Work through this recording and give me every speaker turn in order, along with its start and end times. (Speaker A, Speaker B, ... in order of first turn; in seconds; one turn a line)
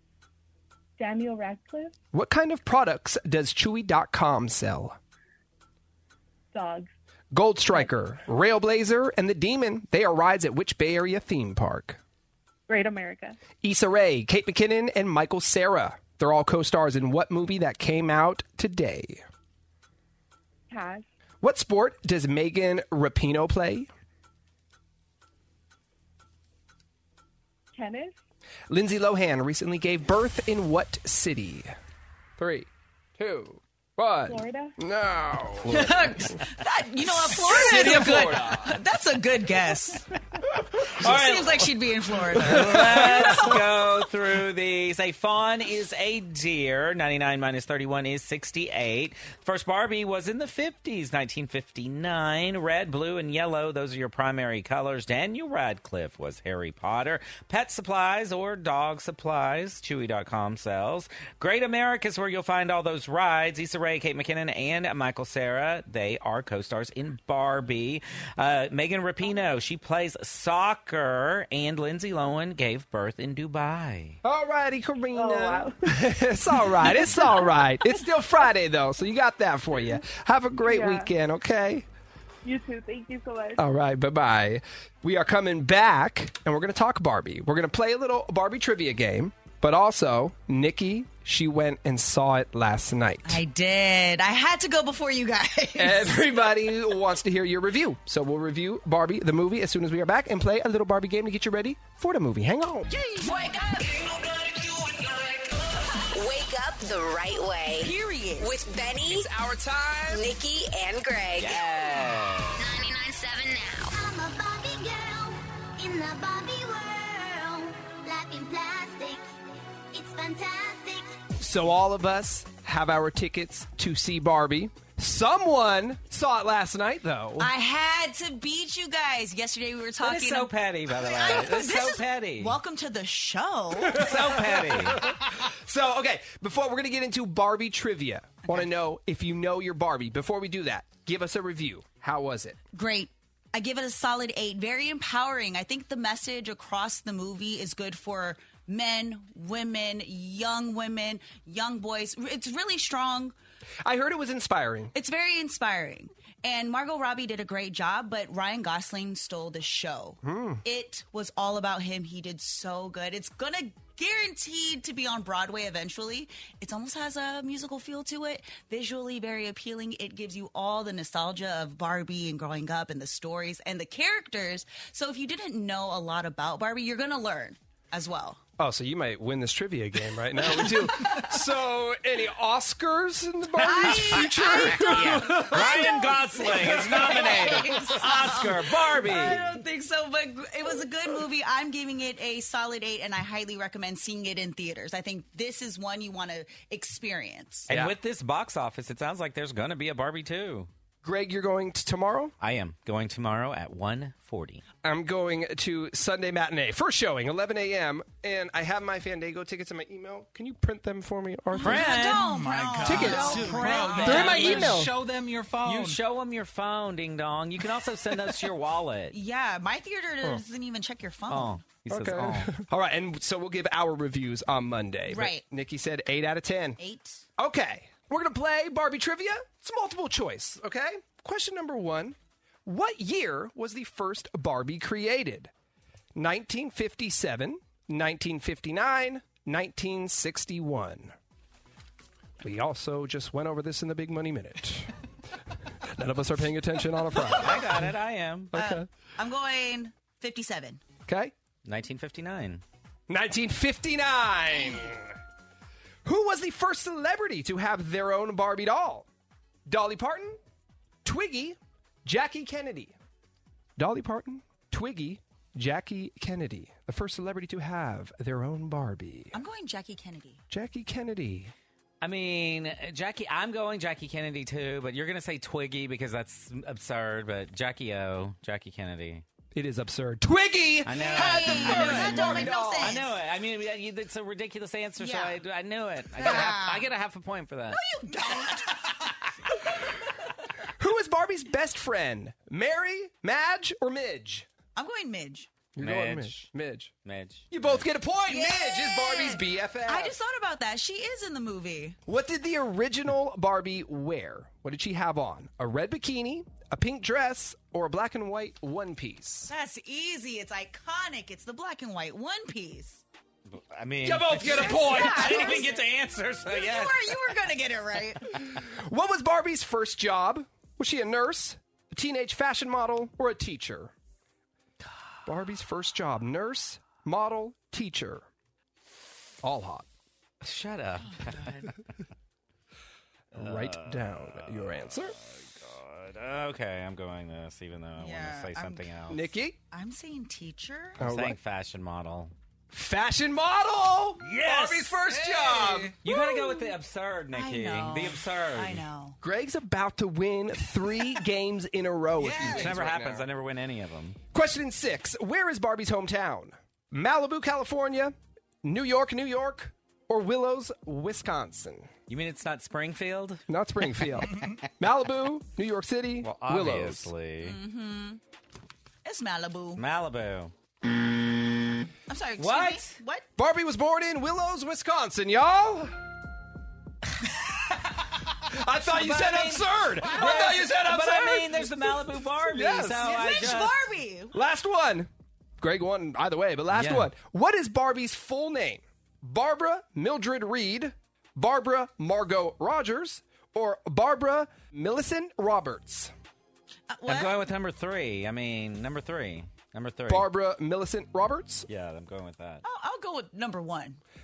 Speaker A: 1.0-1.9
Speaker B: 2.1-5.0
Speaker A: 6.5-6.9
Speaker B: 7.3-12.0
Speaker A: 12.7-13.4
Speaker B: 13.6-19.2
Speaker A: 20.7-21.0
Speaker B: 21.4-23.9
Speaker A: 27.7-28.1
Speaker B: 28.7-31.7
Speaker B: 32.4-36.4
Speaker A: 34.3-34.7
Speaker C: 35.7-40.1
Speaker B: 37.3-38.7
Speaker D: 37.6-38.4
Speaker E: 41.0-41.7
Speaker C: 41.0-43.5
Speaker B: 42.4-43.6
Speaker E: 42.4-74.2
Speaker B: 74.2-81.9
Speaker A: 75.1-76.0
Speaker A: 76.9-77.5
Speaker A: 80.6-81.1
Speaker A: 82.5-83.6
Speaker B: 83.6-93.4
Speaker C: 93.2-96.2
Speaker B: 95.8-102.9
Speaker C: 103.0-104.0
Speaker F: 106.0-109.3
Speaker C: 107.8-108.5
Speaker B: 109.0-110.3
Speaker F: 110.1-111.6
Speaker E: 111.4-112.7
Speaker F: 112.6-113.9
Speaker G: 113.9-121.2
Speaker B: 121.4-127.5
Speaker C: 127.4-134.1
Speaker E: 130.0-132.6
Speaker B: 133.9-142.6
Speaker E: 133.9-135.1
Speaker C: 142.7-153.3
Speaker B: 153.8-154.9
Speaker C: 154.9-178.4
Speaker B: 160.2-160.6
Speaker B: 178.6-187.3
Speaker C: 183.6-197.7
Speaker E: 184.8-189.4
Speaker B: 197.7-197.9
Speaker E: 197.7-200.7
Speaker B: 201.0-202.3
Speaker E: 202.4-204.6
Speaker B: 204.8-211.9
Speaker C: 211.5-214.8
Speaker E: 211.6-212.3
Speaker D: 211.9-216.0
Speaker B: 212.8-214.9
Speaker E: 213.0-214.8
Speaker E: 215.6-219.2
Speaker C: 219.1-221.6
Speaker E: 221.3-222.5
Speaker B: 221.9-226.8
Speaker C: 225.1-225.4
Speaker C: 226.8-227.2
Speaker B: 227.4-235.5
Speaker B: 236.2-241.2
Speaker B: 242.4-244.9
Speaker B: 245.8-247.8
Speaker E: 247.3-248.5
Speaker B: 248.5-248.9
Speaker C: 248.5-250.8
Speaker B: 251.1-251.3
Speaker E: 251.7-252.6
Speaker B: 253.1-255.2
Speaker B: 256.1-259.1
Speaker B: 259.7-260.4
Speaker B: 261.0-262.9
Speaker B: 263.8-269.4
Speaker C: 269.3-270.4
Speaker B: 270.5-271.5
Speaker E: 272.0-279.2
Speaker B: 279.5-283.0
Speaker E: 280.9-287.8
Speaker C: 280.9-283.1
Speaker C: 285.0-285.4
Speaker C: 286.2-286.9
Speaker C: 287.7-288.6
Speaker B: 290.8-294.5
Speaker C: 294.8-295.5
Speaker B: 295.8-296.9
Speaker E: 295.8-296.5
Speaker E: 297.1-297.8
Speaker B: 297.5-300.1
Speaker C: 298.3-302.0
Speaker B: 302.1-309.5
Speaker C: 309.5-313.0
Speaker E: 313.5-317.3
Speaker B: 314.0-315.7
Speaker C: 314.4-315.8
Speaker C: 316.5-318.4
Speaker B: 318.3-323.9
Speaker B: 325.2-328.3
Speaker B: 329.4-329.9
Speaker E: 330.4-331.8
Speaker B: 333.3-335.2
Speaker E: 333.3-339.3
Speaker C: 338.0-338.9
Speaker B: 339.1-339.6
Speaker C: 339.7-341.0
Speaker B: 341.0-341.4
Speaker E: 341.0-342.3
Speaker B: 342.7-346.0
Speaker D: 344.3-346.0
Speaker E: 346.0-348.9
Speaker C: 346.1-346.7
Speaker C: 347.3-349.2
Speaker B: 349.2-353.3
Speaker D: 352.2-352.8
Speaker E: 352.4-354.2
Speaker B: 354.3-361.9
Speaker E: 362.1-363.4
Speaker B: 363.5-367.1
Speaker E: 366.2-367.6
Speaker C: 367.4-368.2
Speaker C: 369.1-369.8
Speaker E: 369.8-370.5
Speaker C: 372.1-373.3
Speaker E: 372.4-373.0
Speaker B: 373.4-376.0
Speaker B: 378.4-383.1
Speaker E: 378.9-383.8
Speaker C: 383.0-384.4
Speaker B: 384.3-396.1
Speaker E: 386.7-387.1
Speaker C: 396.9-397.4
Speaker E: 397.1-400.3
Speaker B: 400.1-401.7
Speaker E: 401.7-402.6
Speaker C: 402.6-404.0